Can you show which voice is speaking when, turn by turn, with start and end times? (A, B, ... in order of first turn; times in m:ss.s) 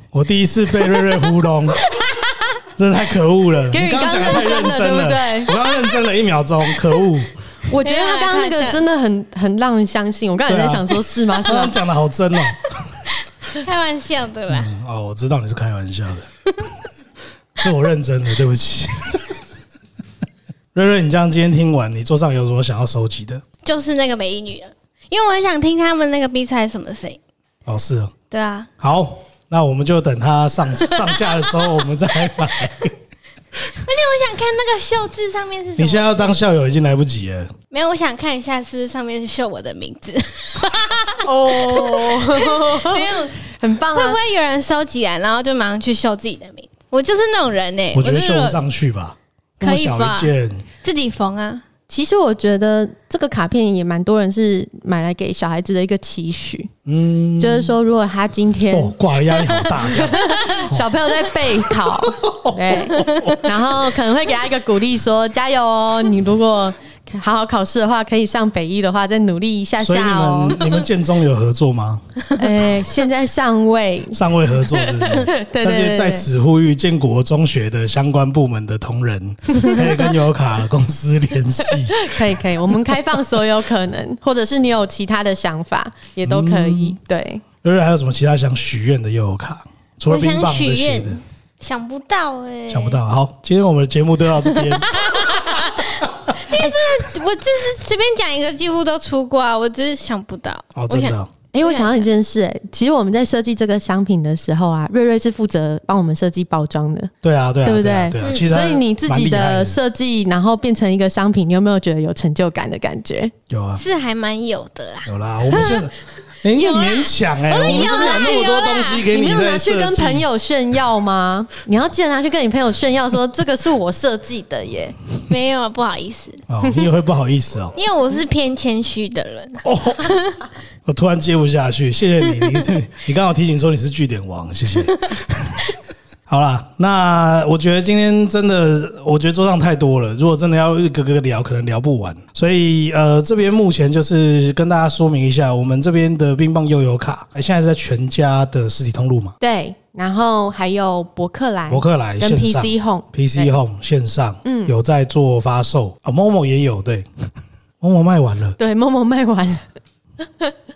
0:00.1-0:01.8 A
0:00.9-0:02.5 B
0:02.8-0:07.3 A
0:03.7-0:05.5 C
0:07.7-0:11.8 C
0:07.8-0:08.8 B
0:10.5-0:13.0 A
0:13.5-0:14.7 B
0:14.5-0:16.3 A
0:17.6-0:19.4 A
0:20.7-0:23.4 A
0:23.6-0:27.2 B
0:27.7-0:28.1 A
0:28.3-0:28.7 B
0:28.8-0:33.0 A
0:33.8-0:36.4 B
0:35.8-0:37.5 A
0:37.7-0:43.4 B
0:41.2-0:44.2 C
0:43.9-0:48.6 B
0:47.9-0:50.7 A
0:49.6-0:50.3 B
0:50.8-0:51.6 B
0:51.9-0:56.7 C
0:56.9-0:57.7 A
0:57.4-0:59.0 C
0:58.7-1:00.9 A
0:59.4-0:59.8 B
0:59.9-1:10.7 C
1:01.8-1:03.4 A
1:03.0-1:03.3 B
1:09.8-1:12.0 A
1:12.4-1:16.3 C
1:14.1-1:22.3 A
1:21.9-1:27.4 C
1:26.2-1:27.0 A
1:27.6-1:31.2 A
1:30.1-1:33.0 B
1:32.7-1:35.6 A
1:34.5-1:42.0 B
1:40.8-1:41.3 A
1:41.5-1:47.1 C
1:47.2-1:49.8 A
1:47.6-1:53.3 C
1:48.2-1:48.5 B
1:53.5-1:53.8 A
1:53.8-1:55.9 B
1:55.0-2:00.3 A
1:56.5-1:59.1 B
1:57.7-1:58.4 C
1:59.1-2:05.0 C
2:05.3-2:06.4 B
2:06.5-2:07.8 A
2:07.8-2:10.4 B
2:09.6-2:10.2 A
2:10.9-2:15.6 A
2:16.3-2:29.4 A
2:29.4-2:33.5 C
2:31.7-2:37.1 A
2:34.4-2:34.7 C
2:37.8-2:38.6 A
2:38.6-2:39.6 C